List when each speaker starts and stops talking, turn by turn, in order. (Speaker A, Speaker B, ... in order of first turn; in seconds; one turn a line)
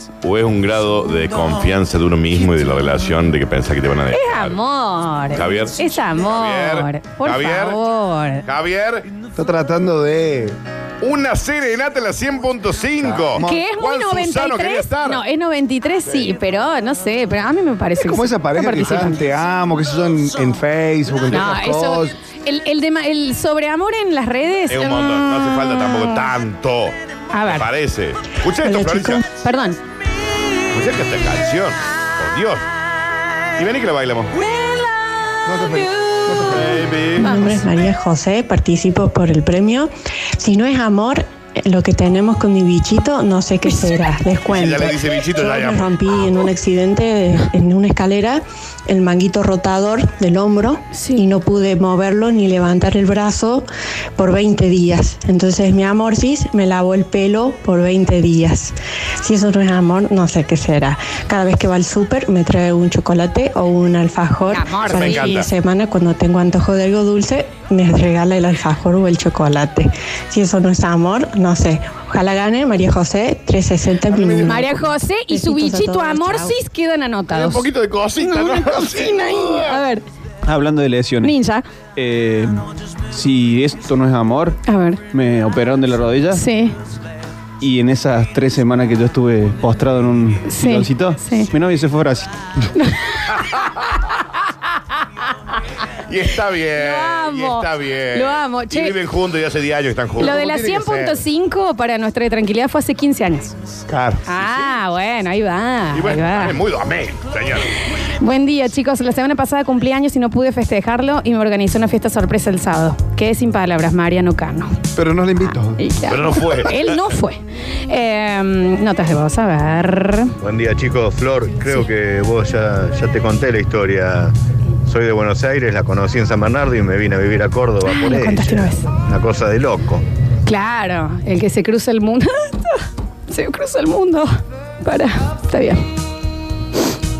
Speaker A: 0.2-4.6
Speaker B: 4.1-8.4
Speaker A: 5.3-7.8
Speaker A: 8.4-9.1
Speaker C: 9.4-10.6
Speaker A: 11.0-15.2
Speaker C: 13.0-13.6
Speaker B: 13.3-19.2
Speaker C: 18.0-22.1
Speaker B: 21.3-26.1
Speaker A: 24.7-29.2
Speaker B: 27.3-27.7
Speaker D: 28.6-29.2
Speaker B: 29.4-29.8
Speaker A: 30.7-32.6
Speaker A: 33.6-34.3
Speaker C: 35.5-36.8
Speaker A: 36.5-37.3
Speaker D: 37.1-53.6
Speaker B: 37.2-37.5
Speaker A: 44.5-45.9
Speaker B: 50.9-51.2
Speaker D: 54.2-76.6
Speaker B: 64.5-65.3
Speaker A: 64.9-65.5
Speaker C: 74.1-74.5
Speaker B: 74.4-77.7
Speaker A: 77.3-79.8
Speaker B: 78.2-80.0
Speaker E: 80.4-81.3
Speaker B: 81.2-81.6
Speaker E: 82.0-84.6
Speaker B: 84.7-85.0
Speaker E: 85.1-86.4
Speaker B: 86.3-86.7
Speaker E: 87.6-92.3
Speaker B: 90.4-91.5
Speaker B: 92.8-94.2
Speaker A: 96.1-100.4
Speaker B: 96.8-99.0
Speaker B: 100.2-103.5
Speaker C: 100.3-101.2
Speaker C: 103.9-104.2
Speaker B: 104.3-106.6
Speaker A: 105.9-107.7
Speaker B: 108.0-114.7
Speaker C: 115.0-115.8
Speaker B: 115.8-120.3
Speaker A: 116.1-117.0
Speaker F: 120.4-124.3
Speaker F: 124.9-128.5
Speaker B: 127.8-128.9
Speaker F: 129.1-130.0
Speaker B: 130.4-134.3
Speaker B: 134.8-135.8